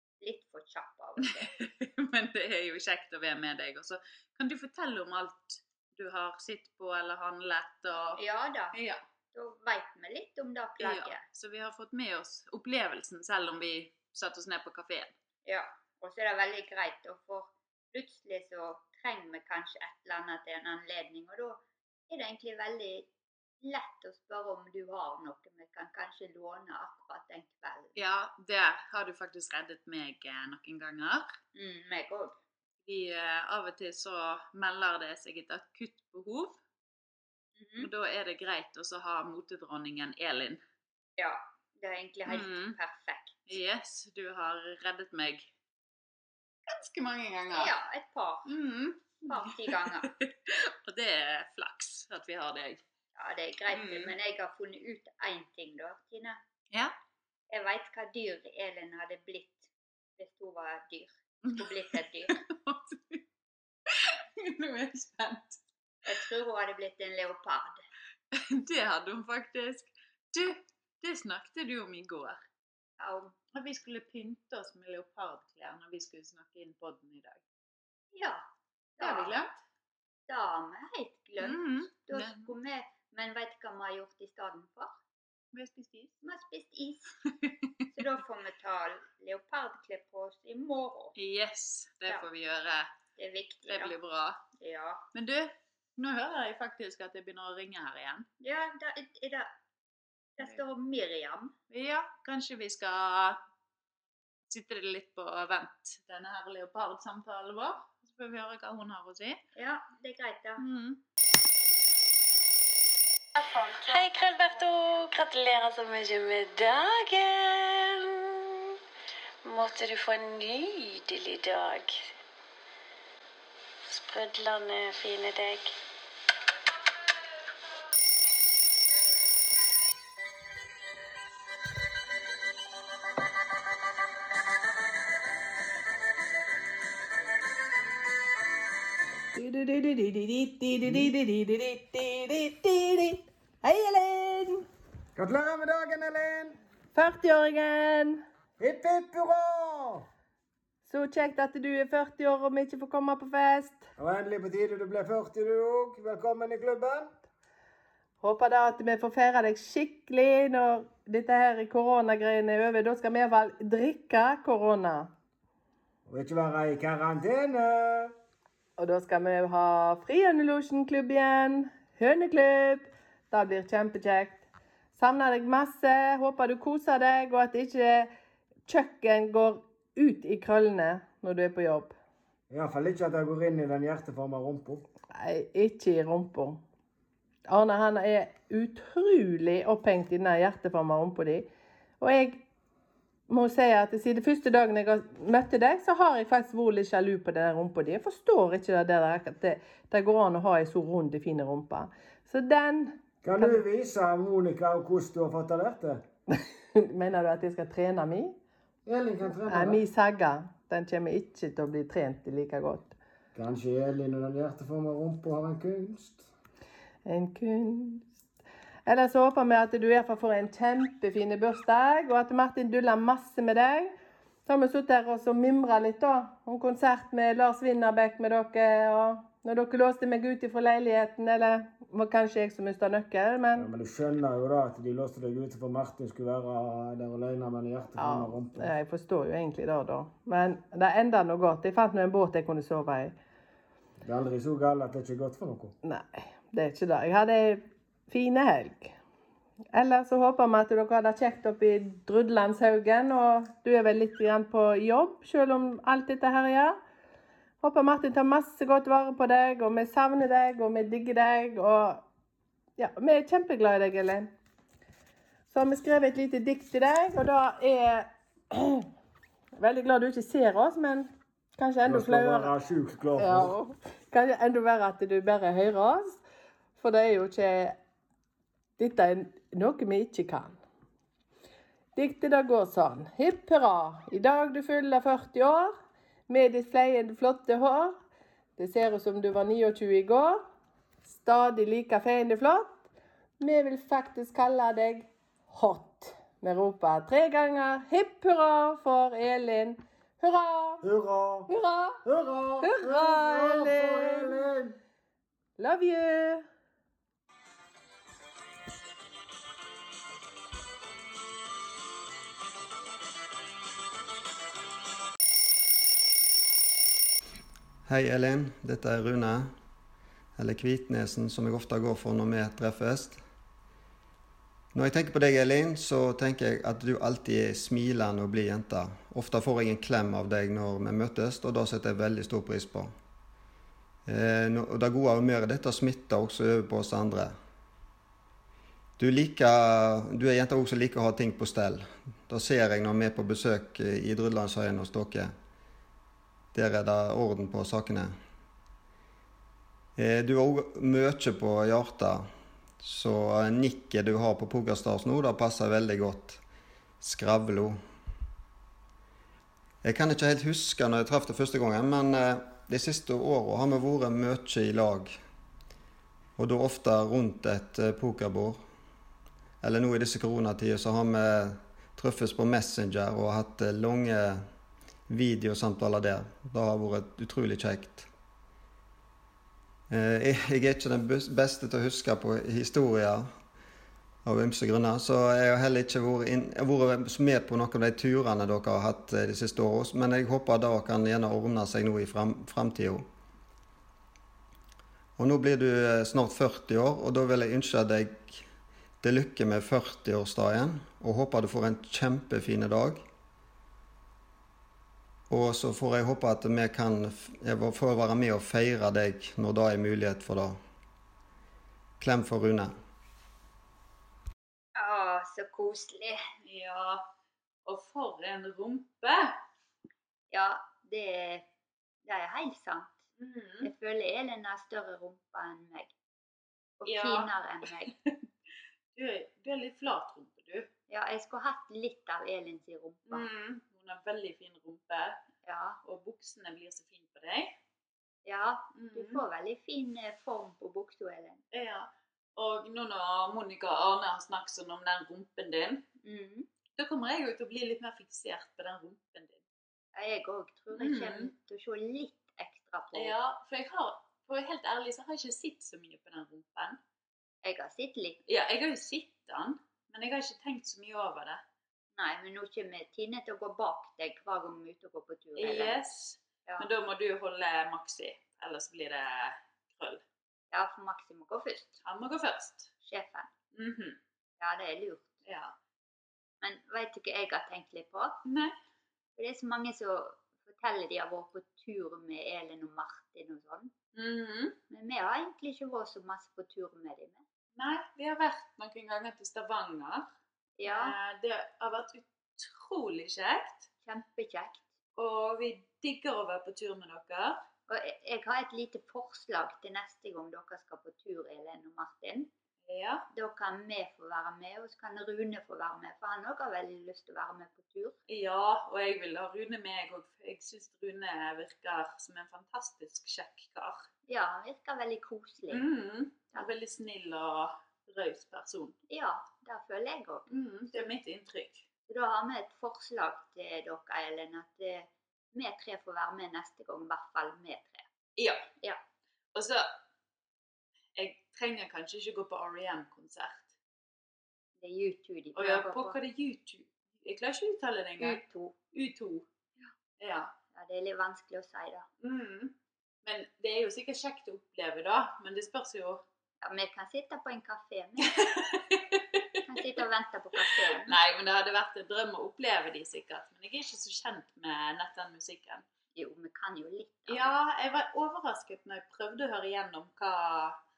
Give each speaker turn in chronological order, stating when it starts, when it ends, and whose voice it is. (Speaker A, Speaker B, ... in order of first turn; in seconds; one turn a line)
Speaker A: 0.2-1.5
Speaker B: 1.3-8.2
Speaker A: 8.2-8.8
Speaker B: 8.7-9.0
Speaker A: 9.3-11.2
Speaker B: 10.8-15.1
Speaker A: 15.5-23.1
Speaker A: 23.6-27.9
Speaker B: 28.0-31.3
Speaker A: 31.5-32.3
Speaker B: 32.9-36.6
Speaker A: 37.6-37.9
Speaker B: 37.8-40.6
Speaker A: 41.2-43.5
Speaker B: 42.3-42.8
Speaker B: 43.5-45.5
Speaker B: 46.7-47.7
Speaker A: 47.5-48.5
Speaker B: 48.5-52.8
Speaker A: 49.2-50.1
Speaker A: 53.1-56.4
Speaker B: 53.7-54.1
Speaker A: 57.5-62.4
Speaker B: 62.3-63.2
Speaker B: 63.9-65.6
Speaker A: 66.1-67.8
Speaker B: 68.3-72.4
Speaker A: 73.0-73.3
Speaker B: 73.5-77.4
Speaker A: 78.1-78.4
Speaker A: 79.0-79.4
Speaker B: 79.0-79.6
Speaker A: 80.3-84.9
Speaker B: 81.4-82.5
Speaker B: 85.5-86.2
Speaker A: 86.2-87.1
Speaker A: 87.9-91.2
Speaker B: 91.2-92.9
Speaker A: 93.2-93.9
Speaker B: 93.7-94.5
Speaker A: 94.6-95.0
Speaker B: 95.1-98.3
Speaker A: 98.4-99.5
Speaker A: 100.4-101.5
Speaker B: 101.7-103.4
Speaker B: 104.5-109.4
Speaker A: 109.6-110.6
Speaker B: 110.6-111.0
Speaker C: 113.4-118.8
Speaker C: 119.5-122.1
Speaker C: 123.8-125.8
Speaker D: 139.3-144.7
Speaker E: 145.2-146.6
Speaker D: 146.9-148.2
Speaker E: 148.6-150.1
Speaker D: 150.8-153.9
Speaker E: 154.0-157.1
Speaker D: 158.2-165.1
Speaker E: 166.1-168.1
Speaker D: 168.8-174.4
Speaker D: 175.0-178.1
Speaker D: 178.7-182.0
Speaker E: 182.5-184.8
Speaker D: 185.1-186.6
Speaker D: 187.5-191.5
Speaker D: 192.0-192.4
Speaker D: 193.3-203.6
Speaker E: 203.2-206.0
Speaker D: 206.3-208.4
Speaker E: 208.9-209.8
Speaker D: 209.4-212.9
Speaker E: 213.3-216.3
Speaker D: 217.1-218.1
Speaker D: 218.9-223.9
Speaker D: 224.5-233.7
Speaker E: 233.6-238.7
Speaker D: 238.0-243.2
Speaker E: 244.0-245.7
Speaker D: 245.8-249.0
Speaker D: 249.7-256.8
Speaker D: 257.6-262.0
Speaker D: 262.8-264.3
Speaker D: 265.5-268.9
Speaker D: 269.6-272.5
Speaker E: 271.9-273.5
Speaker D: 273.2-276.2
Speaker D: 276.8-277.8
Speaker D: 278.8-280.6
Speaker D: 281.9-285.8
Speaker D: 286.3-288.0
Speaker D: 288.6-290.4
Speaker D: 291.1-292.8
Speaker D: 293.4-300.8
Speaker E: 300.8-301.5
Speaker D: 301.5-302.0
Speaker E: 302.0-304.8
Speaker D: 302.6-304.5
Speaker D: 305.6-306.4
Speaker F: 317.9-319.5
Speaker F: 320.4-323.2
Speaker F: 324.7-332.9
Speaker F: 334.1-337.4
Speaker F: 339.0-345.3
Speaker F: 346.5-348.1
Speaker F: 350.0-352.3
Speaker F: 352.8-356.4
Speaker F: 357.0-357.8
Speaker F: 359.8-365.2
Speaker F: 366.4-368.6
Speaker F: 369.6-374.4
Speaker F: 375.1-378.1
Speaker F: 379.9-383.3
Speaker F: 384.2-393.1
Speaker F: 395.2-398.4
Speaker F: 399.0-403.0
Speaker F: 405.3-410.6
Speaker F: 412.0-412.8
Speaker A: 414.8-416.2
Speaker B: 416.4-417.1
Speaker B: 417.7-419.4
Speaker A: 420.3-421.5
Speaker A: 422.1-423.0
Speaker B: 423.2-423.7
Speaker A: 423.6-425.9
Speaker A: 426.8-427.9
Speaker B: 426.9-427.3
Speaker B: 427.9-428.2
Speaker B: 428.9-430.7
Speaker A: 430.9-433.3
Speaker B: 433.1-435.2
Speaker A: 435.4-435.8
Speaker B: 435.8-437.6
Speaker A: 438.2-441.4
Speaker B: 438.8-439.2
Speaker B: 441.5-445.9
Speaker A: 446.0-446.5
Speaker B: 446.8-449.4
Speaker A: 449.9-453.1
Speaker B: 450.7-451.3
Speaker B: 452.9-456.8
Speaker A: 457.4-458.2
Speaker B: 458.3-461.4
Speaker A: 462.0-465.8
Speaker B: 465.4-470.0
Speaker A: 470.5-471.8
Speaker B: 471.8-472.7
Speaker A: 472.8-473.3
Speaker B: 473.5-474.0
Speaker A: 474.4-475.1
Speaker B: 475.2-475.5
Speaker A: 476.4-478.2
Speaker B: 478.2-478.6
Speaker A: 479.2-483.7
Speaker B: 483.9-484.6
Speaker A: 484.7-487.2
Speaker B: 487.6-490.1
Speaker A: 490.6-491.0
Speaker B: 490.6-493.7
Speaker A: 493.9-494.6
Speaker B: 495.0-497.4
Speaker A: 497.7-502.3
Speaker B: 502.7-503.1
Speaker A: 503.1-508.0
Speaker B: 508.1-513.9
Speaker A: 514.1-515.6
Speaker B: 515.5-518.8
Speaker A: 518.9-520.9
Speaker B: 520.3-521.6
Speaker A: 521.9-527.9
Speaker B: 528.2-528.5
Speaker B: 529.4-529.8
Speaker B: 531.0-533.5
Speaker A: 534.6-536.0
Speaker B: 535.4-538.2
Speaker A: 538.0-538.5
Speaker B: 538.7-539.3
Speaker B: 540.0-540.3
Speaker A: 540.5-541.9
Speaker B: 542.0-546.0
Speaker A: 546.4-548.3
Speaker B: 548.2-549.4
Speaker A: 549.5-551.0
Speaker B: 550.5-555.6
Speaker A: 556.0-557.3
Speaker B: 557.1-560.6